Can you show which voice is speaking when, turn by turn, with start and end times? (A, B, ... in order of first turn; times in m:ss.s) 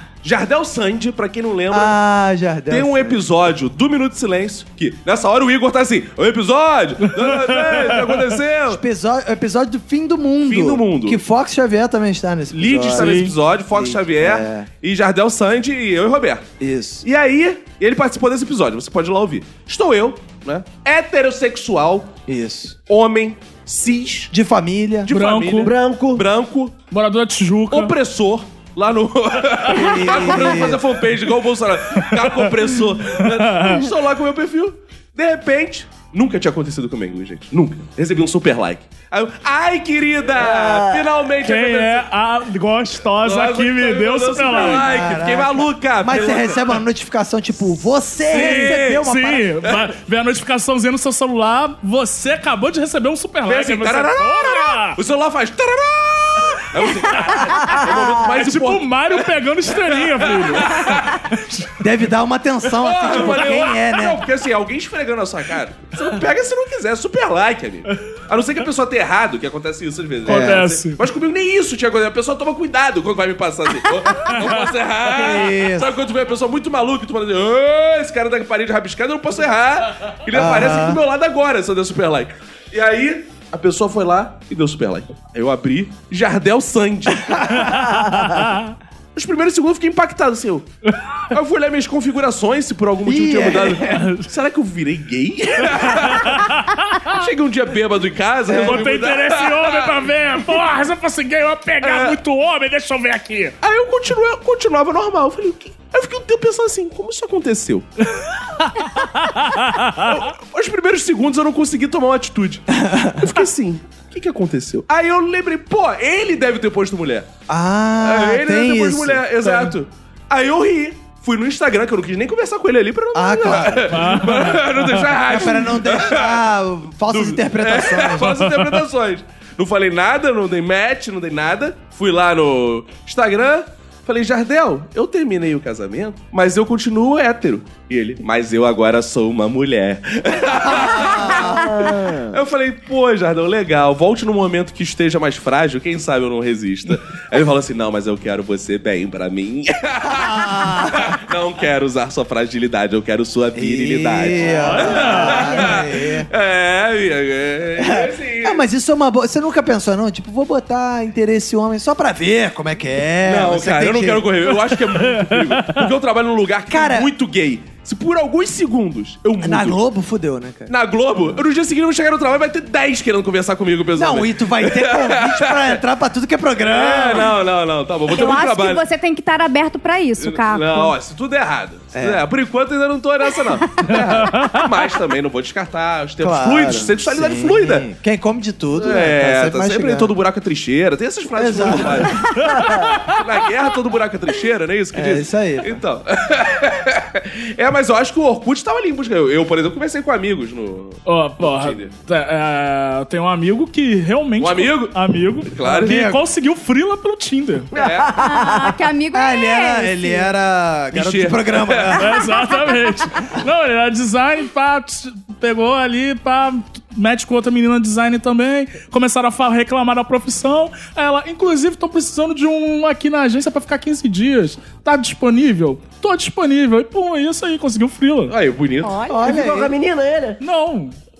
0:00.2-0:02.0 A
0:01.7-0:03.2 B
0:02.7-0:08.8 A
0:07.2-0:08.1 C
0:08.7-0:14.7 B
0:10.4-0:11.2 A
0:12.5-0:16.5 A
0:12.9-0:13.3 C
0:16.6-0:17.0 B
0:17.0-0:22.2 A
0:22.3-0:22.8 B
0:22.9-0:24.3 A
0:24.3-0:25.1 B
0:25.0-0:26.7 A
0:25.1-0:25.7 C
0:25.6-0:26.2 D
0:26.9-0:27.9 C
0:27.7-0:42.1 A
0:29.7-0:30.8 B
0:32.1-0:32.5 C
0:33.2-0:33.8 C
0:40.4-0:41.1 D
0:41.4-0:44.9 C
0:43.2-0:46.8 A
0:44.6-0:49.5 B
0:48.3-0:49.1 A
0:48.3-0:55.0 C
0:53.5-1:01.2 A
0:57.1-1:01.6 C
1:01.8-1:04.2 B
1:02.7-1:27.6 A
1:10.2-1:11.0 C
1:10.3-1:10.6 B
1:15.0-1:15.9 B
1:20.3-1:21.0 B
1:27.2-1:27.7 B
1:27.7-1:28.7 C
1:27.8-1:28.4 D
1:29.1-1:30.6 A
1:31.3-1:36.5 A
1:33.0-1:34.1 B
1:33.7-1:34.3 C
1:35.7-1:37.1 C
1:37.1-1:39.9 A
1:38.5-1:38.8 B
1:38.5-1:43.6 C
1:41.8-1:42.2 A
1:43.6-1:47.9 A
1:48.6-1:50.2 C
1:50.0-1:52.7 A
1:52.7-1:53.3 B
1:53.2-1:57.3 A
1:57.5-1:59.7 B
1:58.0-2:06.4 A
2:03.1-2:04.2 B
2:03.9-2:05.2 C
2:05.2-2:08.4 B
2:07.1-2:38.6 A
2:20.5-2:21.8 B
2:21.3-2:22.4 D
2:30.0-2:31.2 B
2:33.5-2:36.3 B
2:34.5-2:35.7 C
2:37.8-2:44.3 B
2:43.2-2:49.8 A
2:44.9-2:45.9 C
2:46.7-2:47.1 B
2:49.4-2:50.7 B
2:50.7-2:55.8 A
2:54.0-2:57.4 B
2:56.6-2:58.8 A
2:58.1-3:00.9 E
3:00.2-3:07.9 A
3:01.9-3:02.2 B
3:03.7-3:03.9 E
3:03.9-3:04.6 C
3:06.2-3:10.1 B
3:08.7-3:12.3 A
3:11.4-3:12.2 B
3:12.4-3:12.9 D
3:12.5-3:13.2 C
3:13.1-3:21.9 A
3:14.9-3:15.8 B
3:21.0-3:27.7 C
3:24.4-3:26.0 A
3:25.7-3:26.2 B
3:27.7-3:28.2 A
3:27.7-3:28.7 D
3:28.2-3:30.3 E
3:29.1-3:32.1 B
3:30.9-3:32.0 A
3:32.0-3:48.3 C
3:32.3-3:33.3 E
3:48.3-3:49.0 A
3:48.8-3:49.4 E
3:49.1-3:49.7 B
3:49.2-3:50.4 D
3:50.4-3:51.0 C